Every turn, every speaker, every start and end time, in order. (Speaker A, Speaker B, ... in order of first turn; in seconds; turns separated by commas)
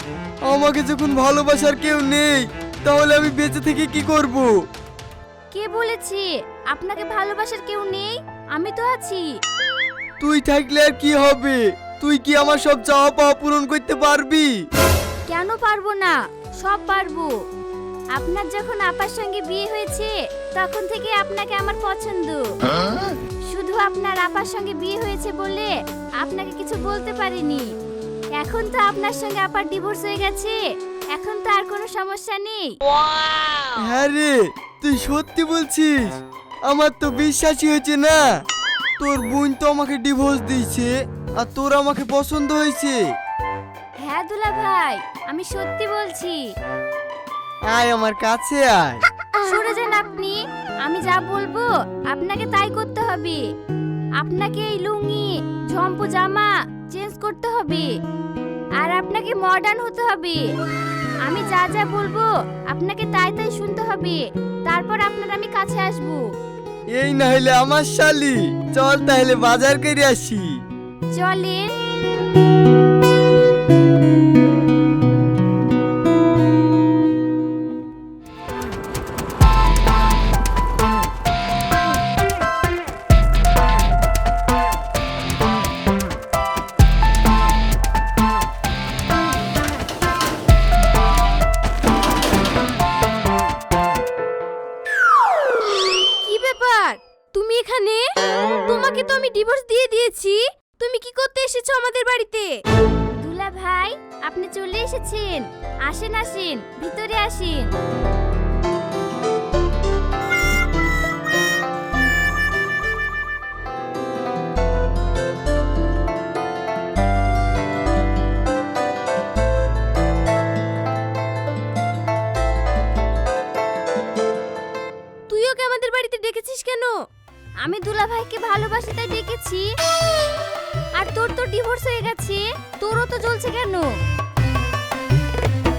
Speaker A: 0.5-4.5, Speaker B: 5.5-9.2, Speaker A: 10.2-14.5, Speaker B: 15.3-17.3, Speaker B: 18.1-22.4, Speaker B: 23.5-27.7, Speaker B: 28.4-30.6, Speaker B: 31.1-32.7, Speaker A: 33.8-36.2, Speaker A: 36.7-38.2, Speaker A: 39.0-43.0, Speaker B: 44.0-46.4, Speaker A: 47.7-49.0, Speaker B: 49.5-53.4, Speaker B: 54.2-57.9, Speaker B: 58.8-60.4, Speaker B: 61.2-66.2, Speaker A: 66.9-70.5, Speaker B: 71.1-71.7, Speaker C: 96.2-98.0, Speaker C: 98.6-102.5, Speaker B: 103.2-107.7, Speaker C: 125.3-126.9, Speaker B: 127.6-129.7, Speaker B: 131.0-133.9